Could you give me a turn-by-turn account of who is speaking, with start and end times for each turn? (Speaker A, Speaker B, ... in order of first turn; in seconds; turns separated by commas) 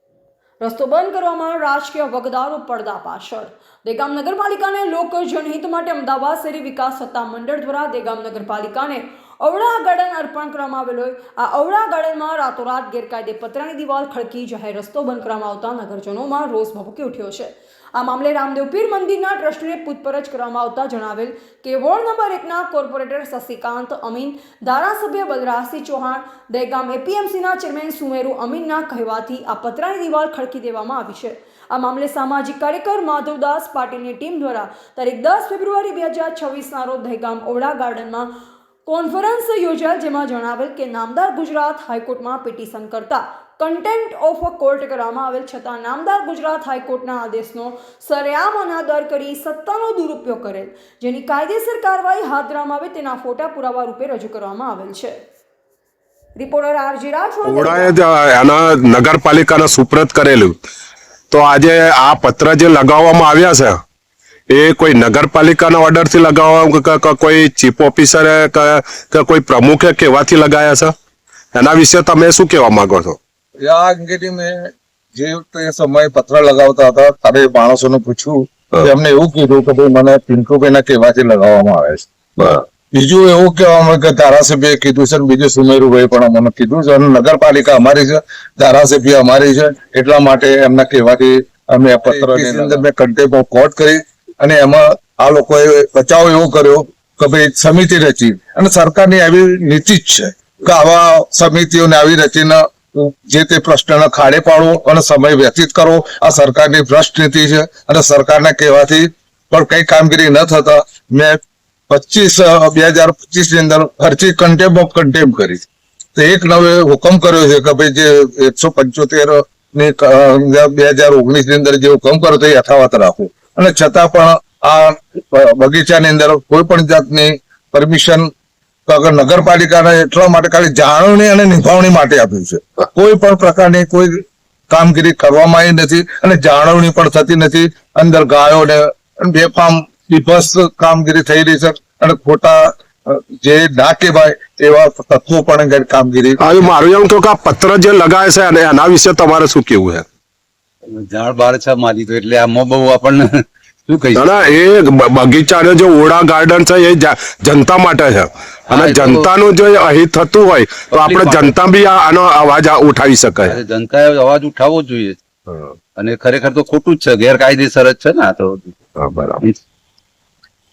Speaker A: 0.6-38.3, Speaker A: 38.8-55.1, Speaker A: 56.4-57.9, Speaker B: 57.5-60.6, Speaker B: 61.3-63.8, Speaker B: 64.5-70.9, Speaker B: 71.5-73.2, Speaker C: 73.6-111.4, Speaker D: 92.2-92.8, Speaker C: 111.9-115.6, Speaker C: 116.1-128.3, Speaker C: 128.9-146.6, Speaker B: 146.4-150.0, Speaker D: 150.9-153.3, Speaker D: 153.9-154.5, Speaker B: 154.1-163.6, Speaker D: 158.7-159.3, Speaker D: 160.9-161.6, Speaker D: 163.4-165.2, Speaker D: 165.9-168.7, Speaker B: 169.0-169.4